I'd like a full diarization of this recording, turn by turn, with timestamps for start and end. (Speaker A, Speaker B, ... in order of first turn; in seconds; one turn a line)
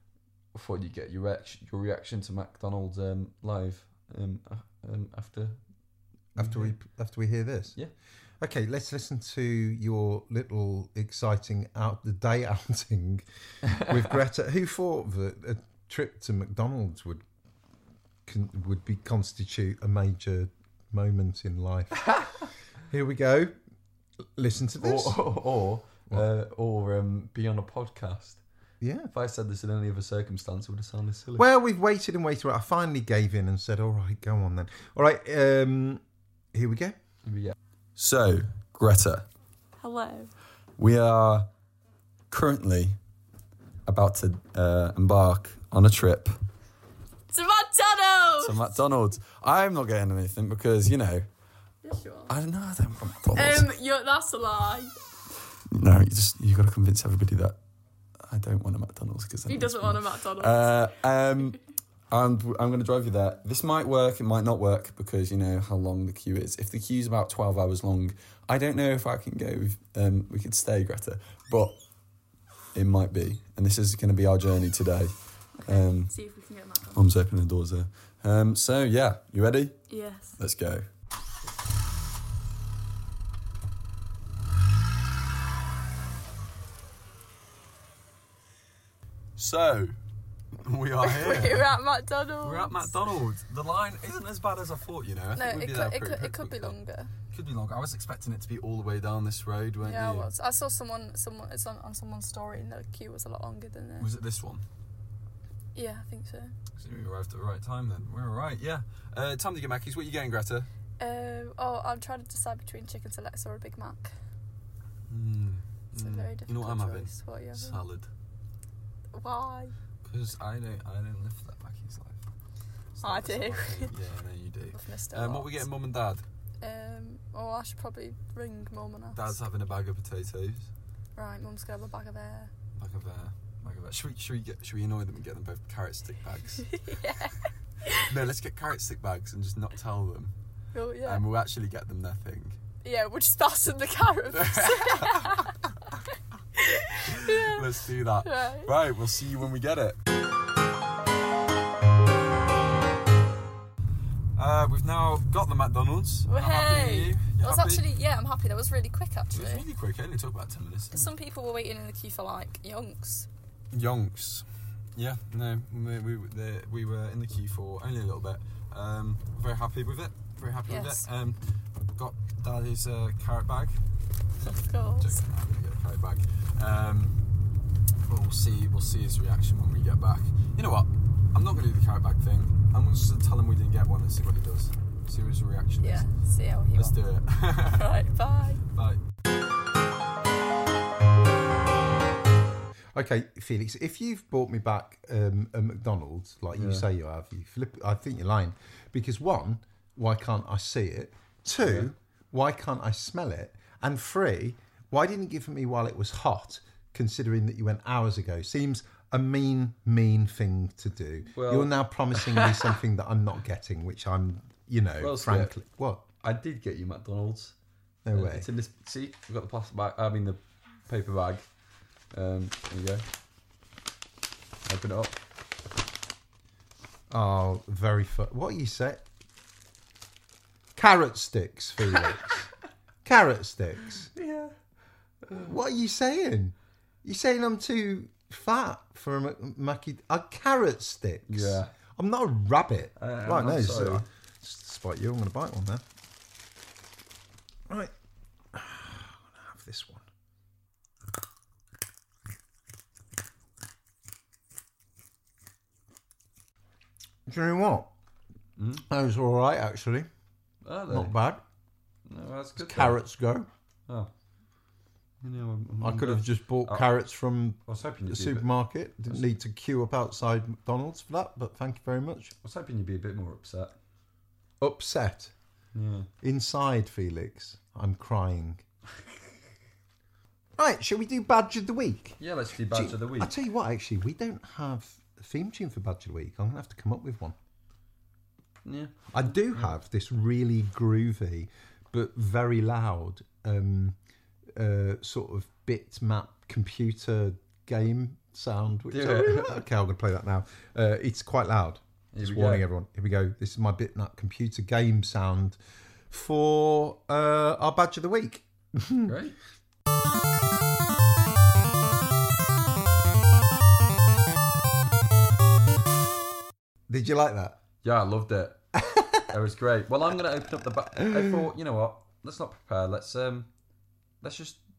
Speaker A: 0.5-5.6
Speaker A: 6.3-6.8
Speaker B: 6.3-7.7
Speaker B: 8.4-17.2
Speaker A: 13.6-14.1
Speaker B: 18.2-22.1
Speaker B: 22.9-23.5
Speaker B: 24.4-25.2
Speaker A: 24.8-28.4
Speaker B: 28.8-29.1
Speaker A: 29.1-31.5
Speaker B: 31.4-36.0
Speaker B: 36.5-37.0
Speaker A: 37.2-39.3
Speaker C: 39.8-40.3
Speaker A: 40.8-41.5
Speaker A: 42.3-43.0
Speaker A: 43.9-46.4
Speaker C: 47.3-48.7
Speaker A: 48.4-51.2
Speaker C: 51.8-52.3
Speaker A: 52.3-53.7
Speaker C: 53.3-54.9
Speaker A: 55.7-57.6
Speaker A: 58.2-61.6
Speaker C: 59.5-61.5
Speaker A: 62.1-71.8
Speaker A: 72.7-76.1
Speaker C: 75.6-77.0
Speaker A: 76.9-79.8
Speaker C: 79.9-80.4
Speaker A: 80.4-80.8
Speaker A: 89.4-90.0
Speaker A: 90.5-91.7
Speaker C: 91.0-92.9
Speaker A: 92.4-96.8
Speaker C: 95.3-97.1
Speaker A: 97.3-100.3
Speaker C: 99.8-104.1
Speaker A: 104.0-104.6
Speaker C: 105.7-106.5
Speaker A: 106.8-110.7
Speaker C: 111.0-114.1
Speaker A: 115.1-118.1
Speaker C: 115.9-117.8
Speaker C: 119.1-119.7
Speaker A: 120.0-122.2
Speaker A: 122.9-126.2
Speaker C: 123.0-123.9
Speaker C: 124.7-125.6
Speaker C: 126.6-129.3
Speaker A: 129.1-130.7
Speaker C: 131.2-132.5
Speaker A: 132.8-136.7
Speaker C: 136.7-138.0
Speaker A: 137.9-140.3
Speaker C: 140.7-141.2
Speaker A: 141.0-142.6
Speaker C: 142.8-145.5
Speaker A: 144.3-145.5
Speaker C: 146.6-148.7
Speaker A: 147.0-150.0
Speaker A: 154.3-157.8
Speaker C: 156.3-159.7
Speaker A: 159.3-161.1
Speaker C: 160.9-163.3
Speaker A: 163.7-173.8
Speaker C: 170.7-171.0
Speaker C: 174.4-175.2
Speaker A: 175.0-177.2
Speaker A: 178.0-186.1
Speaker C: 185.8-187.0
Speaker A: 186.7-187.9
Speaker C: 187.6-188.6
Speaker A: 188.7-189.0
Speaker B: 192.9-216.0
Speaker A: 196.5-196.9
Speaker A: 201.6-201.9
Speaker A: 211.3-212.8
Speaker A: 215.0-215.5
Speaker A: 216.2-217.5
Speaker B: 218.0-218.5
Speaker A: 218.1-221.5
Speaker A: 222.1-223.0
Speaker A: 224.7-225.2
Speaker B: 227.1-229.0
Speaker B: 230.8-232.5
Speaker B: 233.0-234.1
Speaker A: 234.1-234.5
Speaker A: 235.2-235.5
Speaker B: 235.3-245.8
Speaker A: 241.3-241.7
Speaker A: 242.9-244.1
Speaker B: 248.5-250.0
Speaker B: 257.2-257.9
Speaker A: 258.6-258.8
Speaker B: 258.9-260.1
Speaker A: 260.6-261.1
Speaker B: 260.9-261.4
Speaker A: 262.1-263.0
Speaker B: 262.6-263.5
Speaker A: 265.2-266.9
Speaker B: 265.8-272.3
Speaker A: 267.6-268.5
Speaker A: 272.4-273.7
Speaker B: 274.6-275.3
Speaker A: 275.7-276.1
Speaker B: 276.2-278.6
Speaker B: 280.6-287.3
Speaker A: 282.2-283.3
Speaker A: 288.6-289.7
Speaker B: 289.1-294.0
Speaker B: 294.6-305.6
Speaker A: 298.9-299.6
Speaker A: 302.1-302.6
Speaker B: 306.1-309.1
Speaker A: 309.0-309.4
Speaker B: 316.9-317.6
Speaker A: 317.8-318.6
Speaker B: 318.8-319.3
Speaker A: 319.3-323.5
Speaker A: 324.2-324.6